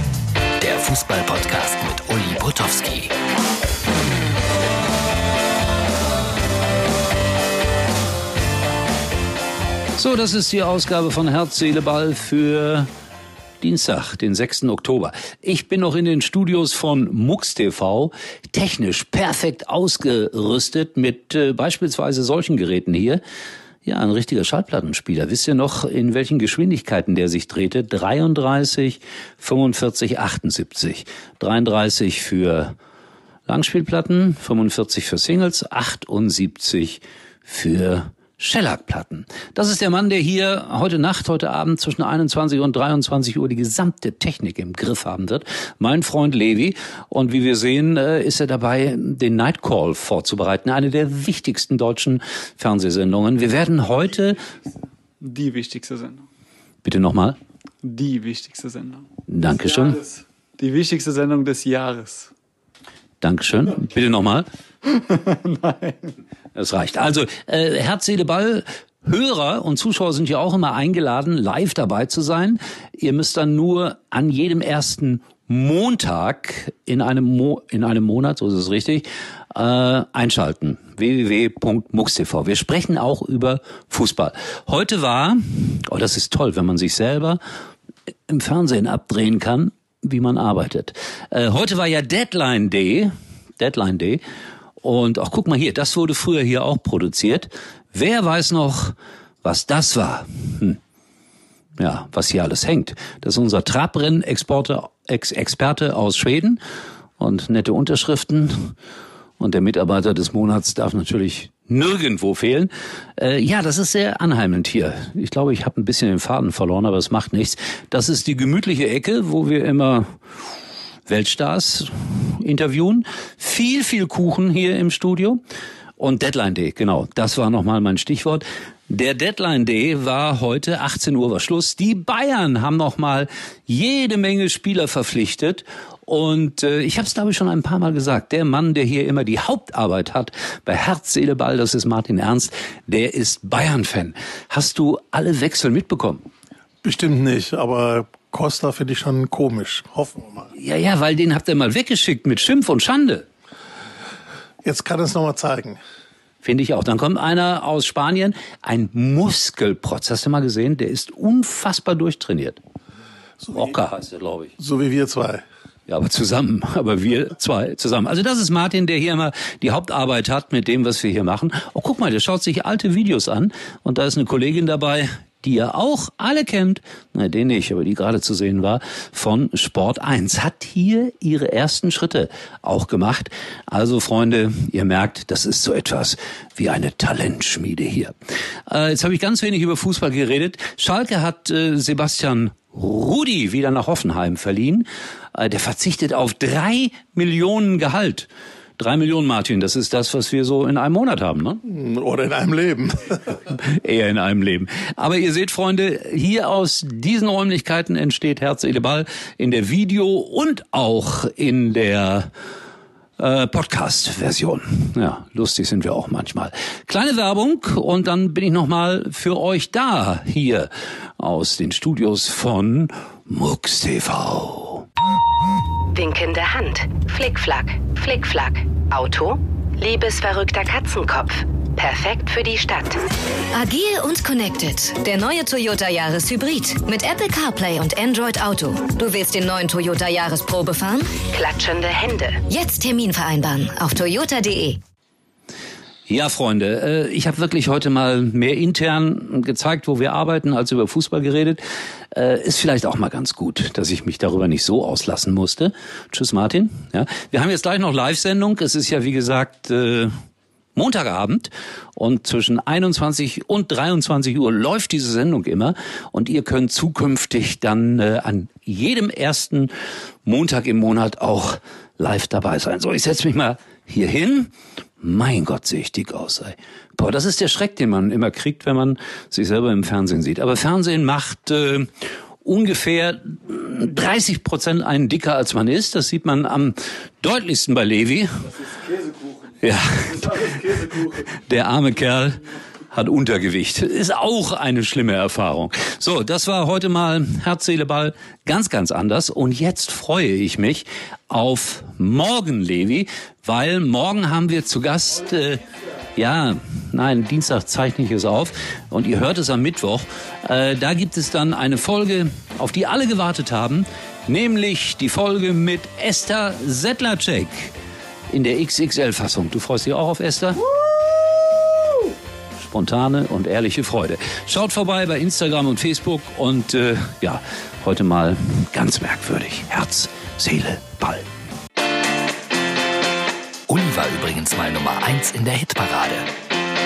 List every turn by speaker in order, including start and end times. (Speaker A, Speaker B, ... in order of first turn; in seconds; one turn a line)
Speaker A: 0.6-3.1
Speaker B: 10.0-12.9
Speaker B: 13.6-23.2
Speaker B: 23.8-32.7
Speaker B: 33.5-54.4
Speaker C: 55.2-56.2
Speaker B: 56.8-57.4
Speaker C: 57.8-62.3
Speaker B: 59.3-60.0
Speaker B: 63.2-64.5
Speaker C: 64.8-66.1
Speaker B: 66.5-87.4
Speaker B: 88.3-94.2
Speaker B: 94.8-100.8
Speaker B: 101.8-106.6
Speaker B: 107.2-108.7
Speaker B: 109.4-120.0
Speaker B: 121.1-125.4
Speaker B: 126.0-146.2
Speaker D: 146.8-150.5
Speaker B: 150.5-153.2
Speaker D: 154.6-155.8
Speaker B: 156.4-162.6
Speaker D: 163.4-163.7
Speaker B: 163.5-164.5
Speaker D: 164.6-165.4
Speaker B: 165.9-188.1
Speaker B: 188.7-201.6
Speaker D: 201.6-203.2
Speaker B: 203.5-212.3
Speaker B: 213.2-224.8
Speaker E: 225.9-233.0
Speaker E: 233.5-234.4
Speaker F: 233.8-241.0
Speaker E: 235.0-235.3
Speaker E: 236.6-237.1
Speaker E: 238.6-239.2
Speaker E: 241.0-242.6
Speaker F: 242.6-244.7
Speaker B: 246.1-251.6
Speaker B: 252.1-260.1
Speaker B: 260.7-269.7
Speaker B: 270.2-281.9
Speaker B: 282.4-288.6
Speaker B: 289.6-305.6
Speaker B: 306.1-317.7
Speaker B: 318.3-320.6
Speaker B: 322.6-331.3
Speaker A: 333.7-336.3